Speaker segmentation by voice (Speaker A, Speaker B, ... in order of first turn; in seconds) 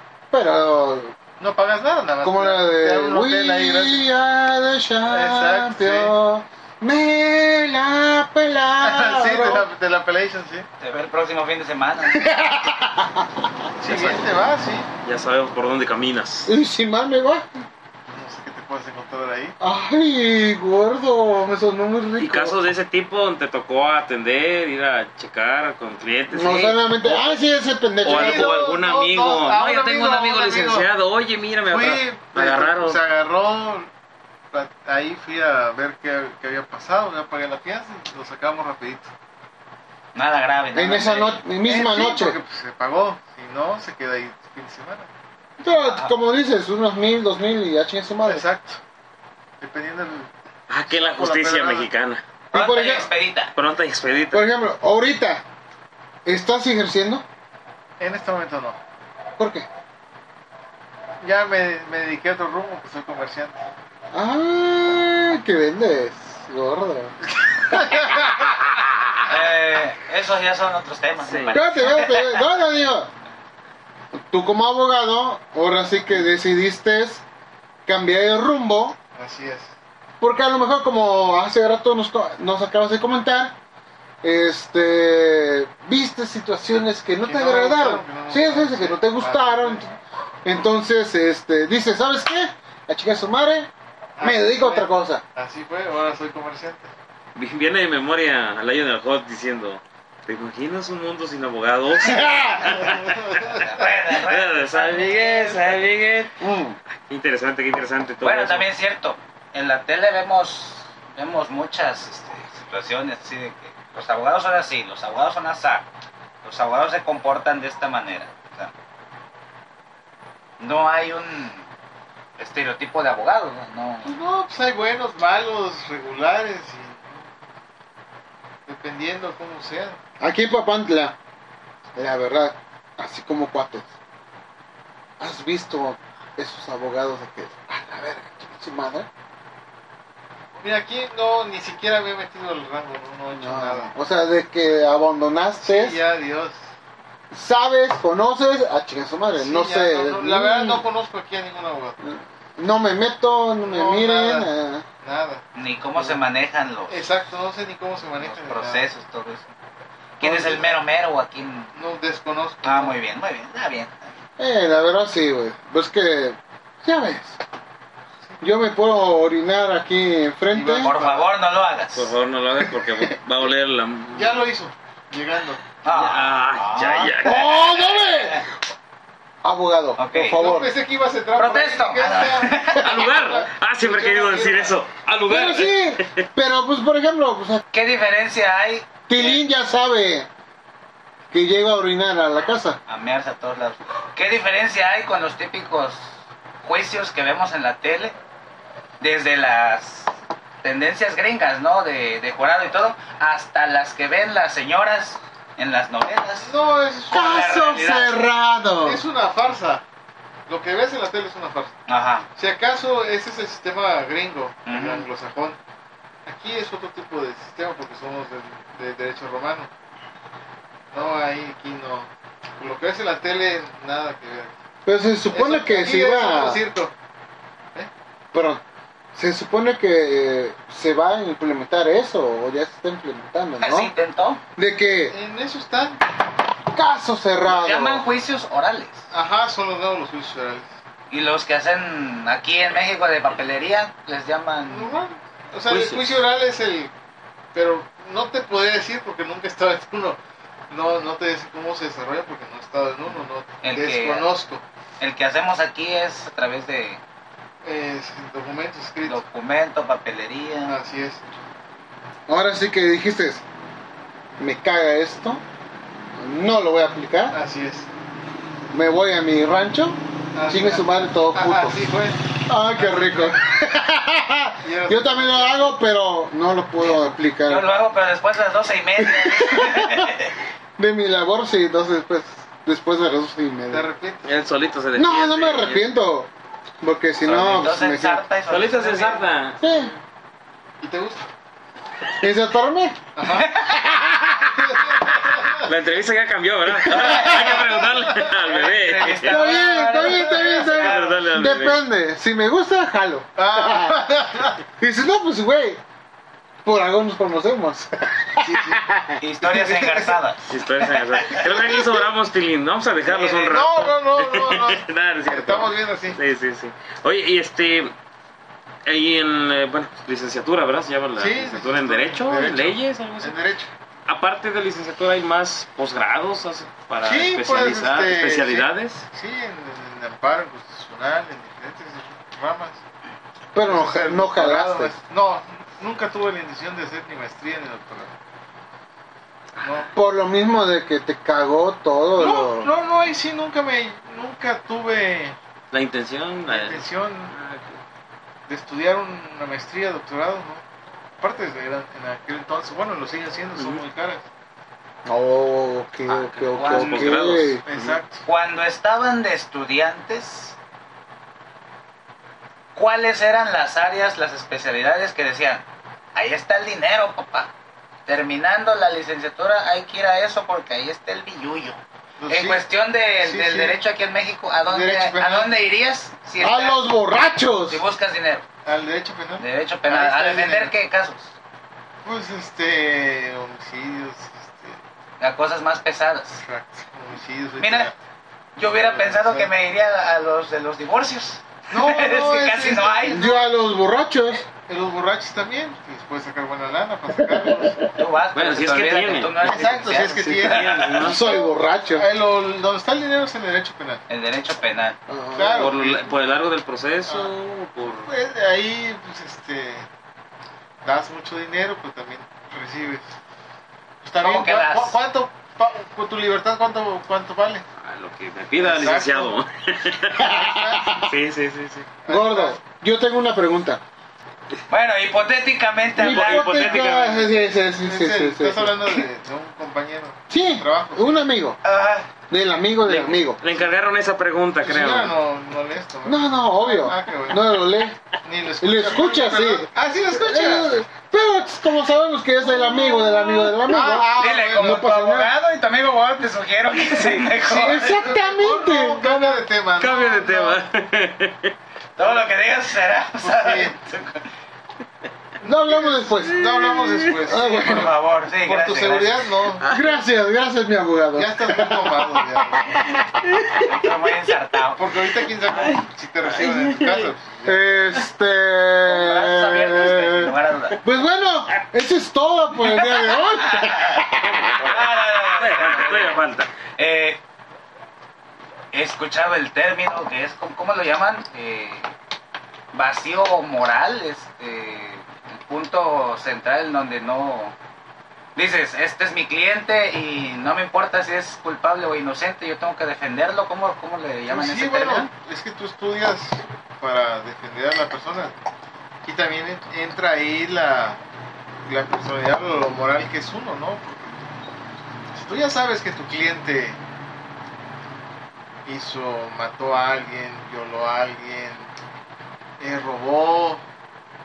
Speaker A: 0.3-1.1, 2.2-9.7, 12.1-13.3, 16.4-17.6, 19.6-22.6, 26.3-28.6, 40.7-42.4, 45.6-48.4, 52.5-53.1, 54.3-55.4, 56.2-57.2, 59.4-59.7, 64.1-67.1, 67.7-68.9, 71.5-73.1, 74.3-77.2, 77.8-79.0, 80.2-83.5, 84.2-95.2, 102.0-102.9, 106.4-106.8, 130.2-131.2, 131.9-133.9, 135.2-139.1, 143.3-146.0, 147.3-150.8, 152.0-154.8, 164.4-167.4, 168.4-170.9, 172.6-173.1, 177.2-178.5, 179.4-180.7, 185.3-187.6, 189.1-190.3, 191.3-192.8, 207.1-209.0, 224.8-226.6, 228.3-228.6, 229.1-233.9, 234.6-235.1, 236.7-238.0, 262.3-263.4, 264.4-265.4, 266.1-267.4, 268.7-271.8, 272.4-277.7, 279.0-280.1, 280.8-283.9, 284.9-286.3, 286.8-288.2, 289.6-289.9, 292.1-293.0, 293.6-294.7, 296.8-297.4, 299.2-304.0, 304.8-305.8, 306.6-309.2, 333.5-334.9, 339.9-342.7, 355.1-357.6, 376.4-377.8, 393.1-394.5, 397.2-397.8, 401.0-402.1, 405.1-405.7, 420.1-421.1, 422.1-423.8, 426.0-429.1, 430.3-431.6, 432.3-433.4, 436.0-438.0, 438.6-445.3, 447.4-449.4, 455.4-456.6, 457.2-457.9, 459.7-462.1, 467.4-474.8
Speaker B: 1.4-4.0, 5.1-6.1, 8.8-10.7, 13.8-14.9, 18.1-19.6, 28.0-30.9, 31.7-33.9, 34.5-39.1, 41.6-45.1, 48.2-48.8, 49.6-50.3, 50.9-51.9, 58.0-58.8, 61.2-63.6, 67.7-68.3, 79.1-79.7, 87.2-89.8, 94.2-96.9, 102.6-103.9, 104.7-105.9, 124.0-127.3, 128.7-130.0, 140.6-143.9, 145.6-146.6, 149.3-152.0, 153.6-154.5, 155.0-155.4, 156.9-158.9, 160.2-160.8, 161.7-162.9, 170.5-171.3, 174.1-175.6, 180.2-184.8, 206.4-207.4, 208.8-209.8, 210.5-211.7, 212.3-215.6, 216.2-219.7, 220.9-224.5, 225.3-226.9, 235.1-236.0, 239.1-240.7, 244.7-246.9, 247.5-250.2, 250.7-254.6, 257.6-259.2, 260.7-261.2, 267.3-267.9, 270.3-273.4, 274.6-275.8, 283.7-284.3, 290.8-291.3, 293.1-293.6, 294.3-295.7, 297.1-299.1, 303.4-304.6, 308.4-308.8, 309.4-310.2, 313.4-316.2, 321.2-323.7, 327.0-332.8, 333.7-338.1, 339.6-339.9, 342.2-345.4, 346.5-347.3, 348.5-350.6, 351.2-354.2, 357.6-358.2, 372.2-373.8, 374.6-375.5, 378.6-380.7, 382.0-384.8, 386.4-388.0, 388.7-389.5, 391.7-393.5, 394.6-397.8, 399.4-404.0, 405.3-406.1, 407.1-407.3, 408.0-409.9, 410.8-413.1, 414.0-417.6, 418.6-419.3, 420.1-421.0, 422.0-422.6, 426.8-431.2, 434.6-437.4, 438.2-440.7, 443.1-444.9, 447.4-450.6, 453.2-453.7, 455.4-459.6, 461.1-462.9, 464.7-468.0, 494.3-498.3, 499.0-501.0, 501.6-504.1, 505.1-506.8, 508.6-511.7, 512.6-513.6
Speaker C: 10.8-12.2, 40.1-41.4, 45.8-46.1, 52.5-53.5, 69.2-72.4, 103.5-105.0, 108.2-115.9, 116.4-118.7, 120.6-121.6, 122.4-124.1, 155.5-157.0, 158.2-159.5, 160.2-161.7, 162.6-164.1, 170.8-172.1, 175.8-178.4, 180.0-180.4, 181.3-183.0, 187.7-189.4, 192.9-198.1, 199.0-200.1, 200.6-206.5, 207.1-208.2, 211.9-212.3, 214.7-215.1, 233.6-234.4, 237.4-239.0, 241.1-244.9, 253.6-254.3, 255.0-257.0, 259.0-260.8, 276.8-280.3, 287.2-289.3, 293.3-293.8, 297.1-297.7, 298.4-301.2, 309.2-310.9, 313.1-313.6, 356.5-357.2, 358.2-360.6, 362.7-367.5, 368.1-376.8, 377.7-378.4, 379.4-381.3, 385.2-386.4, 387.6-387.9, 388.6-393.3, 397.9-401.0, 404.1-405.0, 414.2-414.9, 424.7-426.7, 431.6-432.1, 444.1-448.1, 452.0-454.2, 457.4-459.2, 463.6-464.9, 468.9-470.8, 473.4-474.0, 474.6-476.2, 476.8-477.2, 478.7-481.9, 482.7-487.5, 488.4-495.1
Speaker D: 13.8-14.2, 15.0-16.5, 22.2-27.4, 28.0-33.0, 50.7-52.2, 53.5-54.4, 71.2-71.6, 97.3-106.4, 107.1-108.7, 171.9-174.4, 175.9-177.6, 182.8-186.2, 245.7-246.1, 284.2-285.9, 288.5-289.9, 295.6-299.5, 300.4-301.8, 310.5-317.9, 318.9-323.4, 324.1-329.1, 339.6-339.9, 345.7-347.8, 353.6-353.8, 356.1-358.0, 398.3-401.2, 405.5-408.1, 417.8-420.4, 421.0-421.9, 426.0-427.3, 432.8-435.1, 446.8-447.3, 449.8-451.5, 456.5-457.1, 459.6-460.0, 463.2-463.8, 465.6-467.1, 474.6-476.5